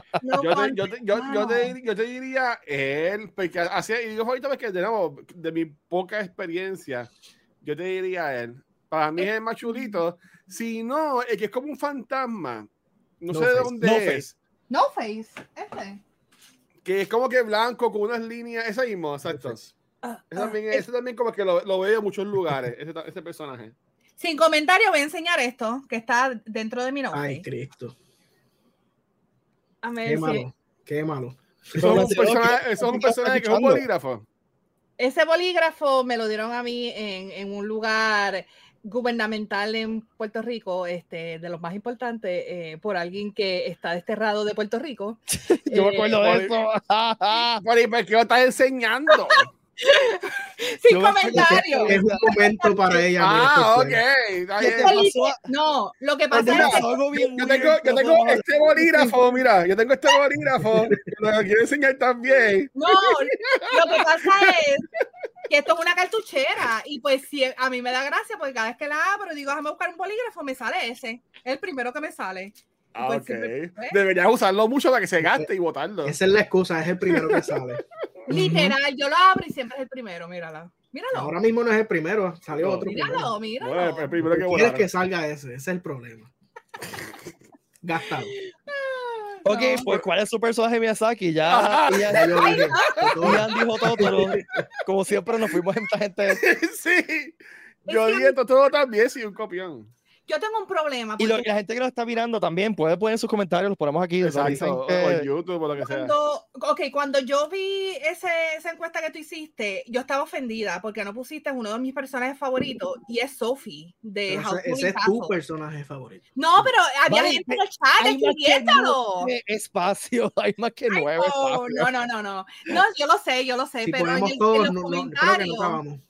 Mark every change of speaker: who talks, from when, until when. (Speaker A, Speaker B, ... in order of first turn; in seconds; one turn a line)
Speaker A: 0.2-1.7
Speaker B: 0.4-7.1
Speaker B: 7.6-12.7
Speaker A: 9.2-10.0
Speaker B: 13.2-14.3
Speaker C: 13.3-14.3
Speaker A: 14.7-16.0
Speaker B: 16.9-19.6
Speaker D: 19.3-19.7
Speaker A: 20.0-20.8
Speaker B: 20.3-23.7
Speaker A: 24.2-27.4
Speaker D: 27.1-27.9
Speaker A: 29.8-30.5
Speaker D: 30.1-32.3
Speaker B: 31.8-34.2
Speaker C: 31.8-33.8
Speaker A: 35.0-46.2
Speaker C: 45.3-47.6
Speaker B: 46.0-46.6
Speaker B: 47.6-49.5
Speaker A: 49.2-53.1
Speaker C: 50.9-52.2
Speaker D: 51.3-54.0
Speaker B: 53.2-55.0
Speaker C: 54.6-55.4
Speaker A: 54.8-57.0
Speaker C: 56.3-59.2
Speaker B: 56.4-64.5
Speaker D: 60.7-61.2
Speaker A: 62.8-64.9
Speaker A: 65.5-74.0
Speaker B: 73.0-76.2
Speaker D: 75.2-75.5
Speaker D: 76.0-78.8
Speaker B: 77.1-77.6
Speaker A: 78.3-81.3
Speaker D: 81.1-83.3
Speaker B: 82.5-82.9
Speaker A: 82.8-84.2
Speaker B: 83.6-84.9
Speaker D: 84.2-86.3
Speaker D: 87.8-88.3
Speaker A: 88.4-89.9
Speaker C: 89.5-92.4
Speaker B: 91.5-93.4
Speaker D: 91.9-94.6
Speaker A: 92.4-93.2
Speaker C: 93.2-96.4
Speaker B: 96.3-99.9
Speaker A: 97.9-98.4
Speaker A: 100.3-101.5
Speaker C: 101.2-105.3
Speaker B: 104.2-106.1
Speaker A: 105.8-115.3
Speaker D: 114.3-116.7
Speaker A: 116.4-119.3
Speaker C: 117.1-121.9
Speaker A: 120.9-125.8
Speaker D: 123.8-126.0